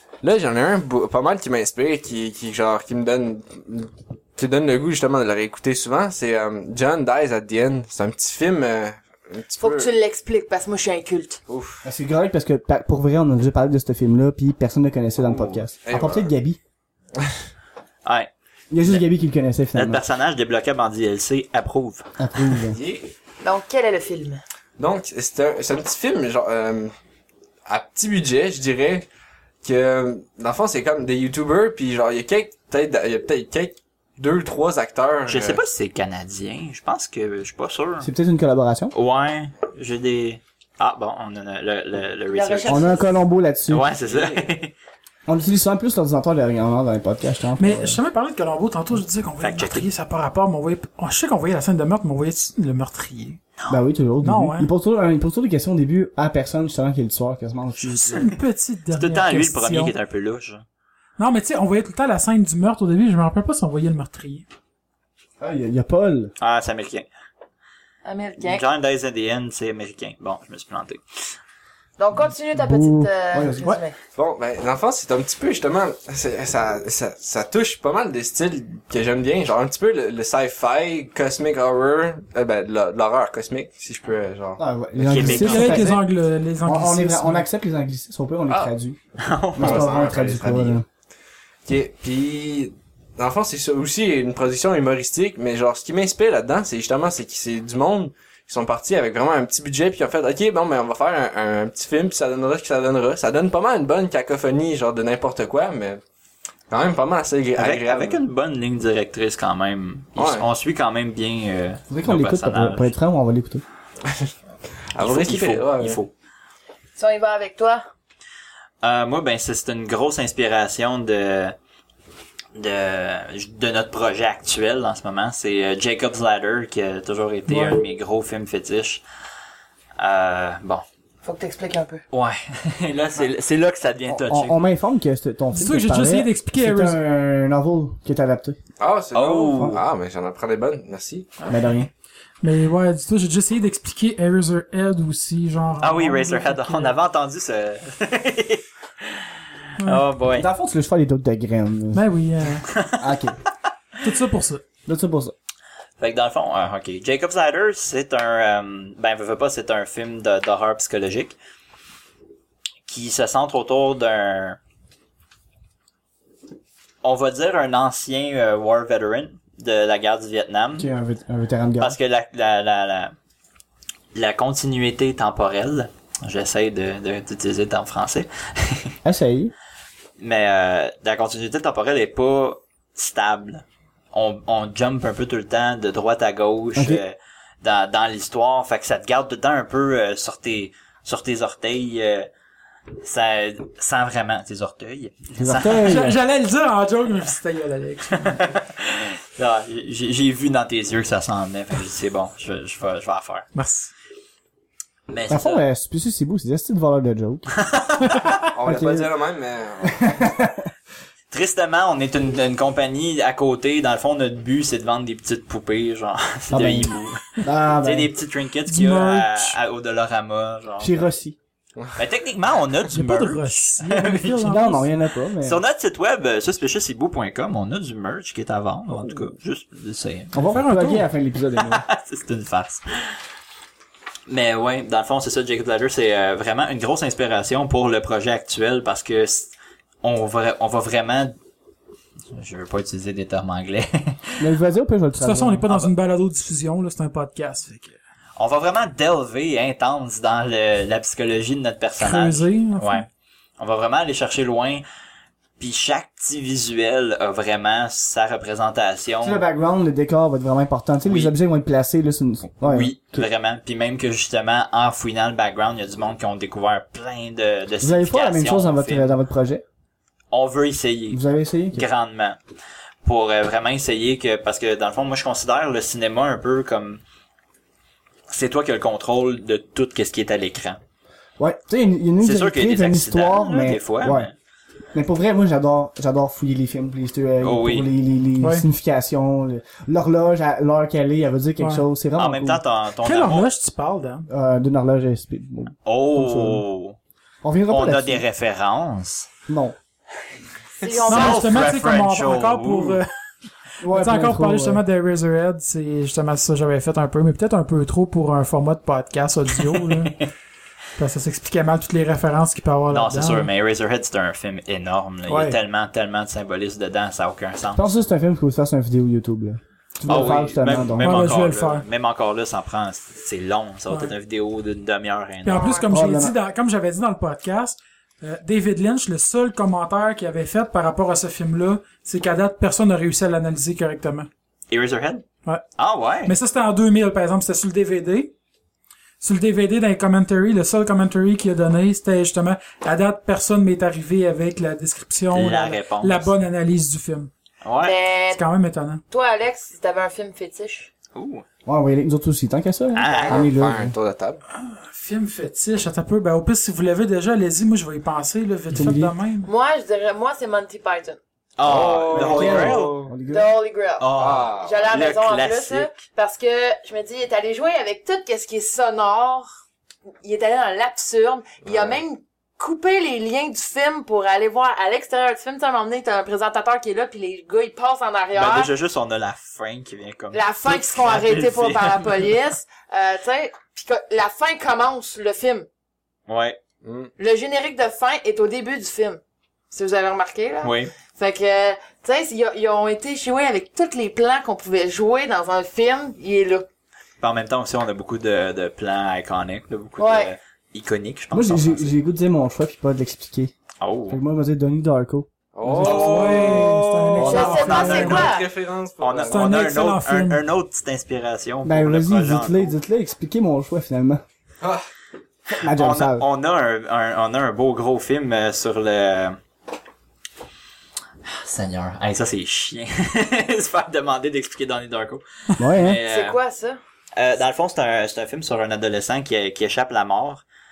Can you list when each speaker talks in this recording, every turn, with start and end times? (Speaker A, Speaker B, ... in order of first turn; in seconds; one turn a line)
Speaker A: 0.2-9.9
Speaker B: 9.6-11.4
Speaker A: 11.5-11.8
Speaker C: 11.8-16.6
Speaker A: 15.2-16.3
Speaker D: 18.0-18.3
Speaker C: 18.7-20.0
Speaker D: 19.7-22.1
Speaker C: 22.2-22.8
Speaker A: 22.7-23.1
Speaker B: 23.4-24.4
Speaker A: 24.8-26.9
Speaker A: 27.6-29.1
Speaker A: 29.6-35.6
Speaker D: 35.3-38.1
Speaker C: 38.0-38.9
Speaker D: 38.9-43.0
Speaker B: 42.3-43.1
Speaker C: 42.6-43.8
Speaker D: 43.7-44.7
Speaker A: 44.0-44.5
Speaker C: 45.3-48.0
Speaker E: 47.6-53.4
Speaker D: 49.4-49.9
Speaker C: 53.7-58.3
Speaker E: 54.2-54.7
Speaker D: 57.8-58.4
Speaker E: 58.1-59.9
Speaker D: 59.0-60.6
Speaker E: 61.2-64.4
Speaker C: 65.4-66.3
Speaker D: 66.4-67.1
Speaker B: 68.0-68.6
Speaker D: 68.4-71.0
Speaker B: 72.0-74.0
Speaker C: 72.5-73.8
Speaker A: 74.1-85.9
Speaker C: 84.6-86.0
Speaker D: 85.1-86.0
Speaker E: 85.2-87.5
Speaker C: 86.6-89.0
Speaker D: 89.2-90.1
Speaker C: 89.5-90.8
Speaker A: 89.6-90.8
Speaker A: 91.7-106.0
Speaker A: 106.7-108.2
Speaker D: 107.5-112.9
Speaker A: 110.2-110.4
Speaker C: 111.9-113.6
Speaker A: 114.9-116.0
Speaker D: 115.0-116.1
Speaker B: 117.0-117.8
Speaker D: 118.8-121.5
Speaker D: 122.5-129.0
Speaker E: 127.5-127.8
Speaker D: 130.0-130.8
Speaker B: 131.2-132.0
Speaker D: 132.1-134.6
Speaker C: 134.1-138.6
Speaker E: 135.5-137.0
Speaker A: 138.8-141.3
Speaker D: 139.1-139.8
Speaker E: 141.4-141.7
Speaker C: 141.5-141.9
Speaker E: 142.4-146.9
Speaker D: 145.8-150.5
Speaker E: 149.8-150.1
Speaker C: 150.3-152.0
Speaker E: 151.9-152.7
Speaker D: 152.7-153.1
Speaker C: 153.0-153.4
Speaker E: 154.0-154.6
Speaker C: 154.8-155.3
Speaker D: 156.0-161.3
Speaker D: 162.8-164.6
Speaker D: 167.0-170.9
Speaker C: 170.8-172.0
Speaker D: 171.8-173.1
Speaker D: 174.1-178.9
Speaker C: 179.0-179.5
Speaker D: 180.2-192.3
Speaker C: 186.7-187.0
Speaker D: 193.0-196.0
Speaker C: 195.4-196.2
Speaker E: 195.7-198.4
Speaker D: 198.1-203.5
Speaker E: 203.5-203.9
Speaker D: 205.1-205.6
Speaker C: 205.3-207.5
Speaker D: 207.6-208.4
Speaker E: 208.1-208.5
Speaker A: 208.5-210.1
Speaker C: 208.6-209.1
Speaker C: 209.8-210.7
Speaker D: 211.3-217.2
Speaker C: 216.5-218.1
Speaker D: 217.7-221.0
Speaker E: 218.7-219.6
Speaker C: 220.8-221.4
Speaker D: 222.0-224.6
Speaker E: 222.9-224.9
Speaker C: 224.0-225.6
Speaker D: 225.4-230.4
Speaker C: 230.3-231.8
Speaker E: 230.4-231.1
Speaker D: 231.6-233.2
Speaker D: 234.3-241.3
Speaker D: 242.3-244.5
Speaker C: 244.4-245.7
Speaker E: 245.2-247.9
Speaker D: 248.4-253.1
Speaker E: 252.0-253.1
Speaker D: 253.6-254.8
Speaker D: 255.6-259.4
Speaker C: 259.2-263.3
Speaker D: 261.0-261.3
Speaker D: 262.6-269.1
Speaker C: 267.8-269.6
Speaker D: 270.3-271.2
Speaker C: 271.1-271.9
Speaker D: 271.7-272.4
Speaker D: 273.0-277.0
Speaker D: 278.3-280.8
Speaker C: 281.4-284.3
Speaker D: 282.2-284.3
Speaker C: 284.9-292.6
Speaker D: 287.4-287.9
Speaker E: 288.4-288.6
Speaker E: 291.6-291.8
Speaker D: 292.1-293.5
Speaker E: 293.0-294.3
Speaker C: 294.3-296.6
Speaker D: 295.9-297.0
Speaker C: 297.4-298.2
Speaker D: 297.7-299.3
Speaker C: 299.5-299.8
Speaker B: 300.8-301.7
Speaker D: 301.1-303.0
Speaker E: 301.1-303.1
Speaker E: 303.8-310.2
Speaker C: 303.8-304.8
Speaker D: 309.7-310.2
Speaker E: 311.0-313.5
Speaker D: 312.9-317.9
Speaker E: 315.3-315.6
Speaker C: 317.7-321.2
Speaker D: 320.1-325.8
Speaker E: 320.9-321.8
Speaker E: 325.4-334.3
Speaker B: 325.5-325.9
Speaker C: 325.9-326.3
Speaker D: 334.7-335.3
Speaker D: 335.8-336.3
Speaker E: 336.2-338.3
Speaker E: 339.2-347.3
Speaker D: 345.3-346.3
Speaker D: 347.6-347.9
Speaker B: 347.8-348.4
Speaker E: 348.3-349.0
Speaker B: 349.1-350.9
Speaker D: 351.1-351.4
Speaker C: 351.6-353.9
Speaker D: 352.9-353.5
Speaker A: 353.2-354.4
Speaker E: 354.6-359.5
Speaker C: 358.7-359.1
Speaker B: 359.4-361.2
Speaker D: 361.6-363.0
Speaker A: 361.6-363.1
Speaker C: 362.2-363.5
Speaker B: 363.3-369.5
Speaker D: 364.0-365.9
Speaker A: 364.1-364.9
Speaker B: 370.2-378.7
Speaker A: 371.6-372.0
Speaker D: 378.3-382.3
Speaker B: 380.3-385.7
Speaker D: 386.3-386.6
Speaker A: 386.8-387.1
Speaker B: 387.2-396.6
Speaker D: 390.6-390.9
Speaker D: 397.2-401.9
Speaker B: 400.0-400.3
Speaker C: 401.3-403.5
Speaker D: 403.8-404.2
Speaker C: 404.1-406.1
Speaker A: 405.5-409.5
Speaker E: 405.8-408.3
Speaker D: 405.8-408.3
Speaker C: 407.2-407.5
Speaker B: 407.2-408.5
Speaker D: 409.0-412.7
Speaker E: 409.2-410.4
Speaker C: 411.6-414.2
Speaker D: 415.5-419.4
Speaker C: 415.6-416.3
Speaker D: 421.2-426.4
Speaker C: 425.6-426.0
Speaker B: 426.1-426.8
Speaker D: 427.2-430.4